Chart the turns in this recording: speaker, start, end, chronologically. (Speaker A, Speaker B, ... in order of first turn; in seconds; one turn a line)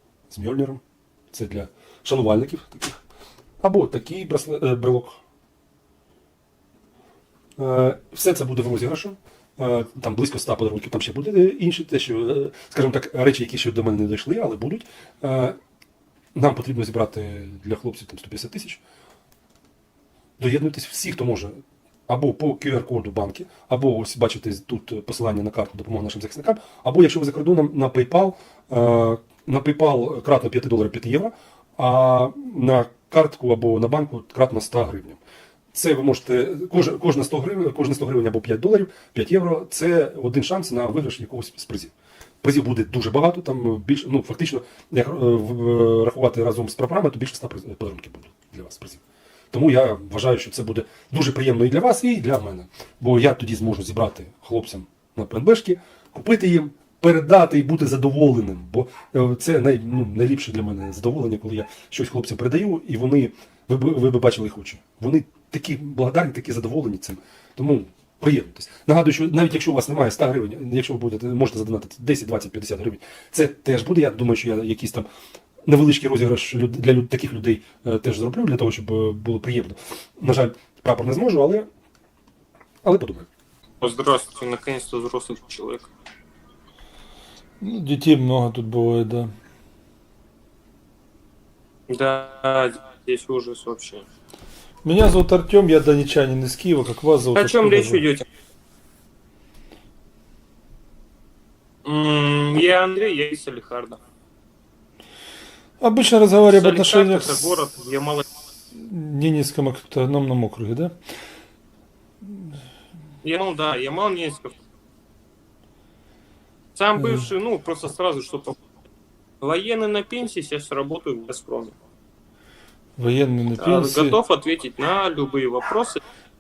Speaker A: 0.3-0.8
Speaker A: 1.3-3.0
Speaker A: 3.6-5.2
Speaker A: 7.6-15.6
Speaker A: 16.4-18.8
Speaker A: 20.4-35.2
Speaker A: 35.7-75.1
Speaker A: 75.7-81.7
Speaker A: 82.8-83.3
Speaker B: 83.8-85.9
Speaker C: 87.6-89.3
Speaker B: 91.9-94.1
Speaker C: 94.8-98.0
Speaker B: 97.3-98.3
Speaker B: 101.8-104.0
Speaker C: 105.8-107.6
Speaker B: 106.4-108.2
Speaker C: 108.7-111.0
Speaker B: 113.2-114.6
Speaker B: 116.8-118.6
Speaker C: 117.0-117.3
Speaker B: 119.4-121.8
Speaker C: 123.0-124.2
Speaker B: 123.6-126.0